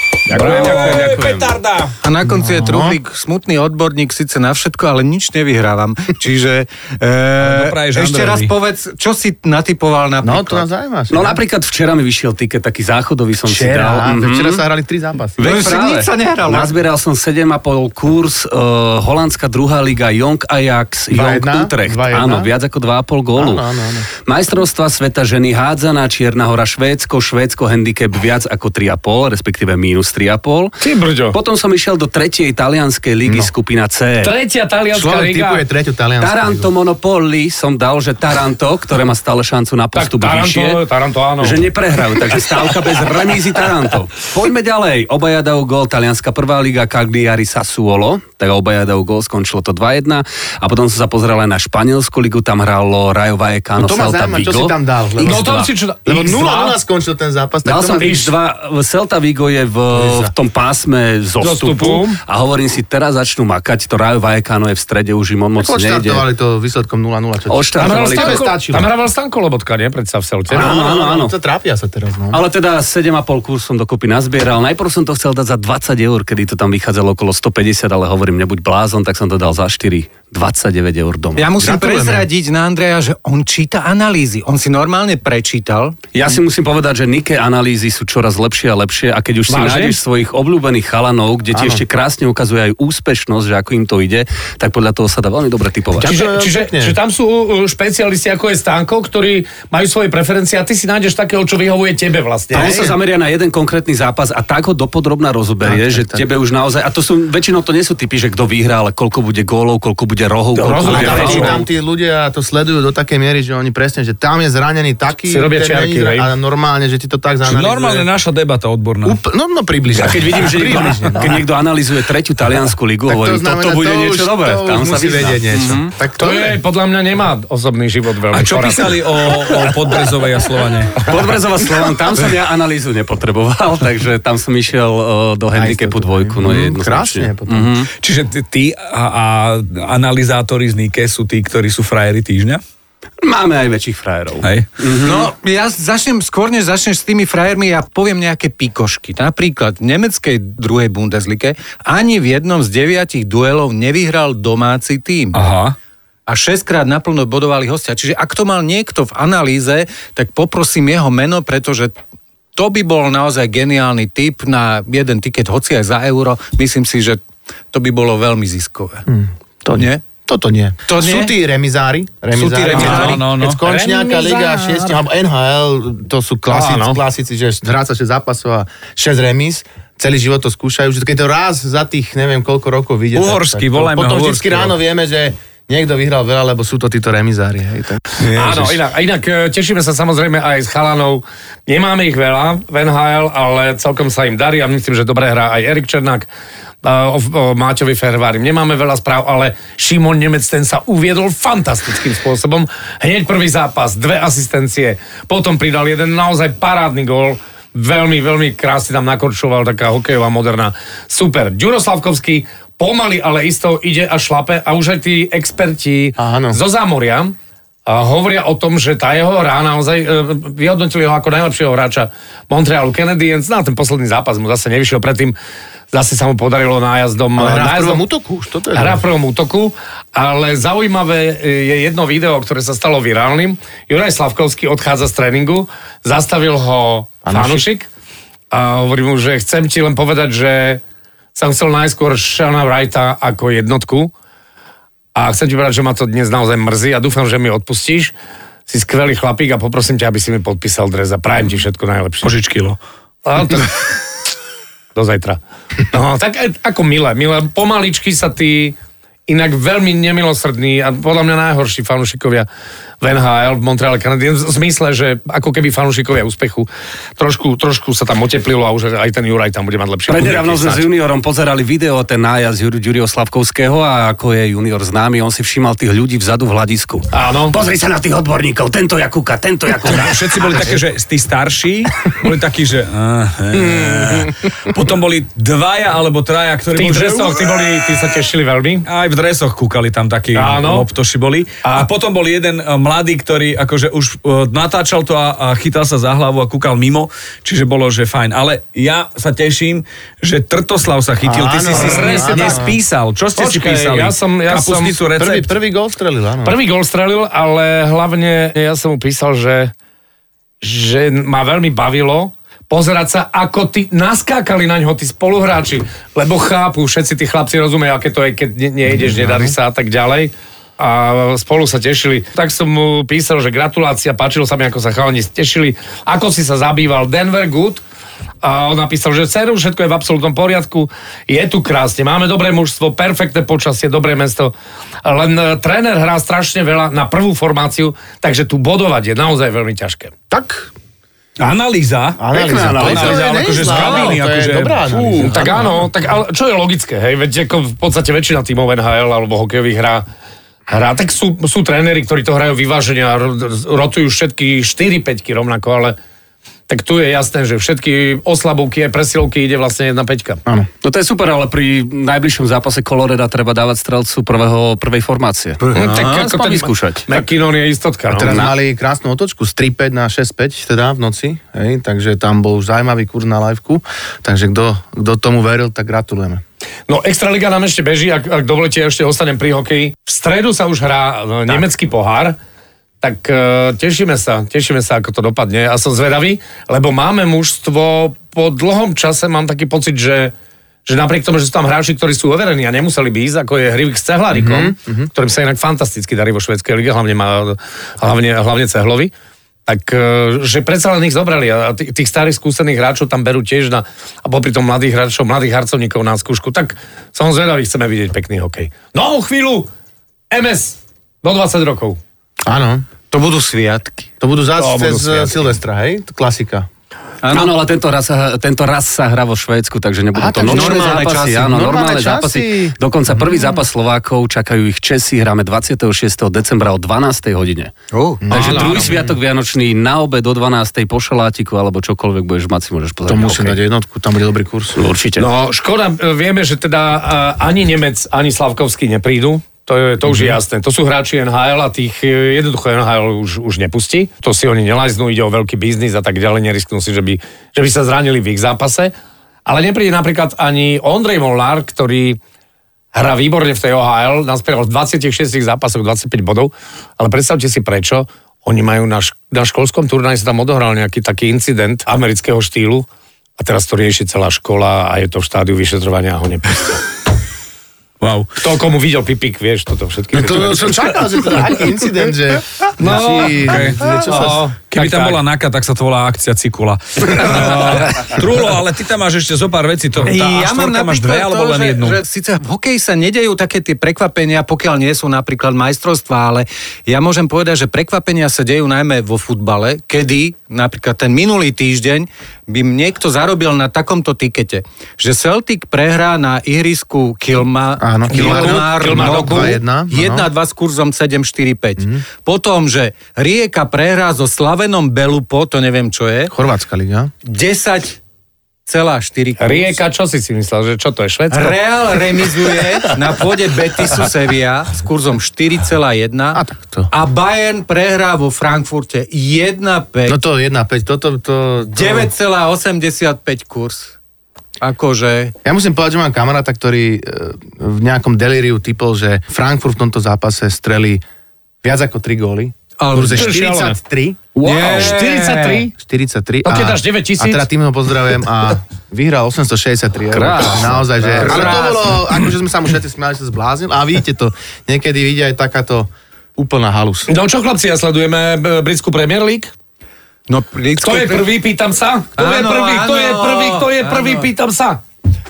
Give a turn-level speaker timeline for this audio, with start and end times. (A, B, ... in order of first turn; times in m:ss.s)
0:00.3-0:01.9 A
0:00.3-0:01.5 B
0:00.3-0:01.0 C
0:02.0-0:10.7 D
0:02.3-0:03.0 E
0:07.4-0:08.5 A
0:10.2-0:11.4 E
0:11.1-0:14.6 B
0:13.4-0:15.7 E
0:15.4-0:23.7 B
0:15.4-0:16.7 D
0:21.1-0:22.5 E
0:23.4-0:24.1 E
0:24.2-0:30.7 B
0:30.8-0:31.4 C
0:31.3-0:34.3 B
0:33.2-0:33.5 E
0:34.2-0:35.6 C
0:34.9-0:36.7 E
0:36.2-0:40.8 B
0:40.0-0:41.7 C
0:41.4-0:55.7 B
0:53.8-0:58.3 E
0:55.2-0:56.8 C
0:57.6-1:06.2 B
0:59.9-1:00.3 E
1:01.4-1:02.2 C
1:05.6-1:08.9 E
1:07.5-1:08.4 B
1:07.8-1:10.8 C
1:10.5-1:12.4 E
1:10.5-1:11.3 B
1:12.3-1:21.5 B
1:21.4-1:26.0 D
1:21.6-1:22.3 E
1:26.1-1:36.1 B
1:29.5-1:30.0 C
1:31.5-1:31.8 E
1:36.0-1:37.0 E
1:36.0-1:42.8 C
1:42.5-1:43.0 E
1:42.5-1:51.7 B
1:45.6-1:46.3 E
1:50.6-1:51.6 C
1:50.7-1:58.1 E
1:55.3-1:56.3 C
1:57.5-1:59.2 A
1:59.0-2:01.5 E
1:59.9-2:05.9 B
2:03.1-2:06.6 E
2:06.2-2:09.0 C
2:08.3-2:11.1 A
2:11.0-2:17.9 B
2:15.5-2:17.8 E
2:18.0-2:22.6 A
2:23.2-2:25.3 B
2:24.4-2:24.7 A
2:25.0-2:35.4 D
2:35.3-2:35.8 A
2:36.3-2:41.9 D
2:42.6-2:47.2 D
2:47.7-2:49.1 D
2:49.1-3:08.0 E
2:49.8-2:50.0 D
2:50.9-2:51.4 D
2:52.4-2:53.2 D
2:52.7-2:53.6 A
2:53.6-2:55.0 C
2:56.5-2:57.0 C
3:03.2-3:04.7 A
3:08.2-3:08.7 A
3:08.3-3:16.3 C
3:16.8-3:45.4 C
3:36.2-3:36.6 E
3:45.9-3:48.0 C
3:47.4-3:49.0 E
3:48.7-3:57.9 C
3:57.2-3:57.6 E
3:58.5-4:00.8 C
4:01.4-4:04.1 C
4:05.2-4:08.1 C
4:08.7-4:12.3 C
4:12.2-4:12.8 A
4:13.3-4:14.0 C
4:15.0-4:18.8 C
4:19.3-4:22.5 C
4:23.0-4:30.9 C
4:30.1-4:40.8 B
4:37.1-4:37.6 C
4:39.9-4:47.9 A
4:46.8-4:48.8 C
4:48.8-5:05.5 A
4:50.3-4:50.9 C
5:01.2-5:02.8 E
5:01.7-5:02.6 C
5:03.4-5:05.0 C
5:05.2-5:06.6 E
5:06.4-5:09.7 C
5:10.6-5:27.8 C
5:18.9-5:19.6 E
5:28.4-5:34.5 C
5:35.0-5:40.1 C
5:40.3-5:40.7 E
5:41.4-5:45.6 A
5:42.2-5:45.8 E
5:42.3-5:44.1 B
5:45.2-5:50.0 C
5:50.7-5:56.0 C
5:56.7-6:00.4 C
6:00.8-6:07.1 B
6:05.6-6:06.1 D
6:05.7-6:08.4 C
6:08.1-6:16.4 E
6:08.3-6:08.5 B
6:16.9-6:22.4 C
6:23.0-6:30.3 C
6:30.9-6:39.1 C
6:34.3-6:35.1 E
6:39.7-6:49.7 C
6:50.3-6:52.0 C
6:52.4-6:52.9 E
6:53.1-6:54.1 D
6:54.2-6:56.7 E
6:54.6-6:55.4 C
6:57.2-6:57.5 D
6:57.3-7:07.7 B
7:00.1-7:03.6 E
7:00.4-7:01.6 D
7:07.9-7:08.2 D
7:08.2-7:09.2 E
7:08.3-7:13.6 B
7:08.3-7:09.0 C
7:13.1-7:14.8 E
7:14.8-7:15.3 B
7:15.2-7:28.9 C
7:29.5-7:32.2 C
7:32.9-7:42.9 C
7:43.4-7:46.8 C
7:48.0-7:48.3 A
7:48.4-7:51.2 C
7:50.1-7:54.4 E
7:52.8-7:53.5 C
7:52.9-8:02.0 A
7:54.0-7:55.2 C
8:00.0-8:26.3 D
8:17.8-8:20.3 E
8:18.1-8:19.6 C
8:21.8-8:22.0 E
8:26.3-8:27.1 E
8:27.3-8:28.0 D
8:28.7-8:29.8 D
8:29.4-8:32.3 C
8:31.3-8:40.2 D
8:36.3-8:36.9 E
8:40.1-8:42.1 E
8:41.7-8:44.0 D
8:44.6-8:45.4 D
8:45.4-8:51.0 E
8:51.6-8:54.3 E
8:52.8-8:53.3 D
8:53.1-8:53.8 C
8:54.4-8:55.7 D
8:54.5-8:54.9 A
8:54.6-8:55.7 C
8:55.8-9:07.1 E
8:56.4-8:57.5 C
9:00.1-9:01.6 B
9:01.1-9:02.0 D
9:07.1-9:09.5 C
9:10.3-9:11.3 D
9:10.8-9:14.8 C
9:12.2-9:14.3 D